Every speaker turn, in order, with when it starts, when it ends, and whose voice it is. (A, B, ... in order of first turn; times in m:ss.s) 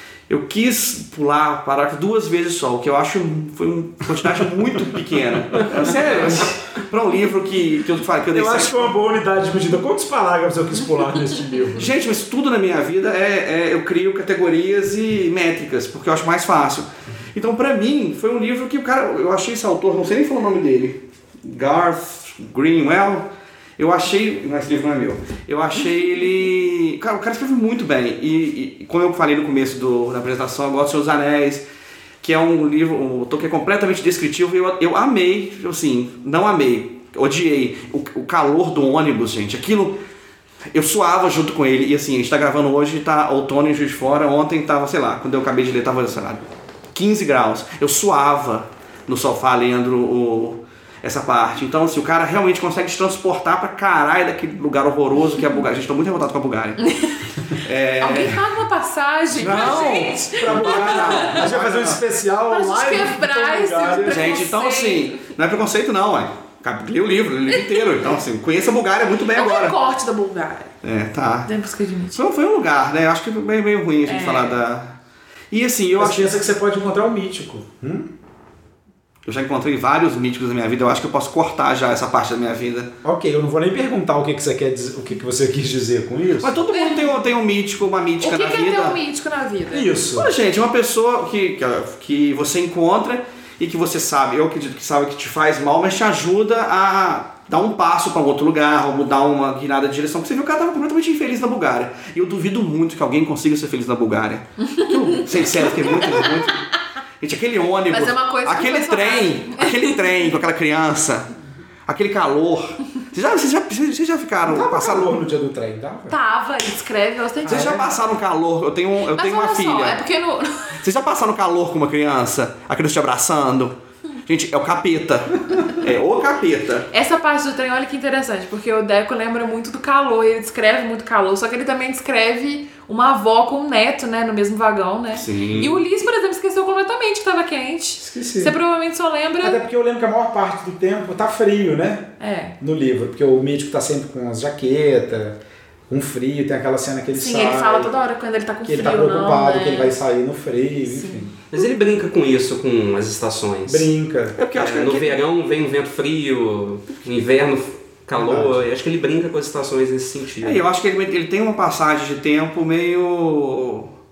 0:00.3-0:08.9 A
0:05.8-0:06.5 B
0:08.3-0:11.9 B
0:11.8-0:31.6 A
0:32.2-0:40.0 A
0:40.7-0:56.8 A
0:57.5-0:58.4 A
0:58.0-1:01.4 C
0:59.4-1:02.0 A
0:59.4-1:04.4 B
1:02.5-1:05.2 C
1:04.0-1:09.8 A
1:09.3-1:10.7 C
1:10.8-1:11.5 A
1:11.4-1:12.2 C
1:12.1-1:14.9 A
1:14.0-1:14.6 C
1:15.5-1:16.4 A
1:15.9-1:18.1 B
1:19.2-1:22.9 A
1:23.0-1:26.5 B
1:26.4-1:29.0 A
1:26.7-1:27.1 C
1:28.2-1:29.9 C
1:29.7-1:30.3 B
1:30.1-1:46.6 A
1:45.5-1:46.5 C
1:47.2-1:51.3 A
1:47.9-1:50.2 C
1:51.8-1:55.1 A
1:54.4-1:56.2 B
1:56.1-1:57.8 C
1:57.4-1:57.9 B
1:57.4-2:00.0 A
1:59.1-2:00.8 C
2:00.8-2:06.9 A
2:06.9-2:19.6 C
2:15.1-2:15.8 A
2:18.0-2:18.5 B
2:19.4-2:27.9 B
2:22.2-2:22.6 C
2:27.1-2:29.9 C
2:28.6-2:31.3 B
2:30.8-2:31.2 C
2:31.5-2:33.9 D
2:33.6-2:34.4 B
2:34.4-2:35.2 A
2:34.5-2:40.6 D
2:38.1-2:38.6 B
2:40.4-2:43.9 A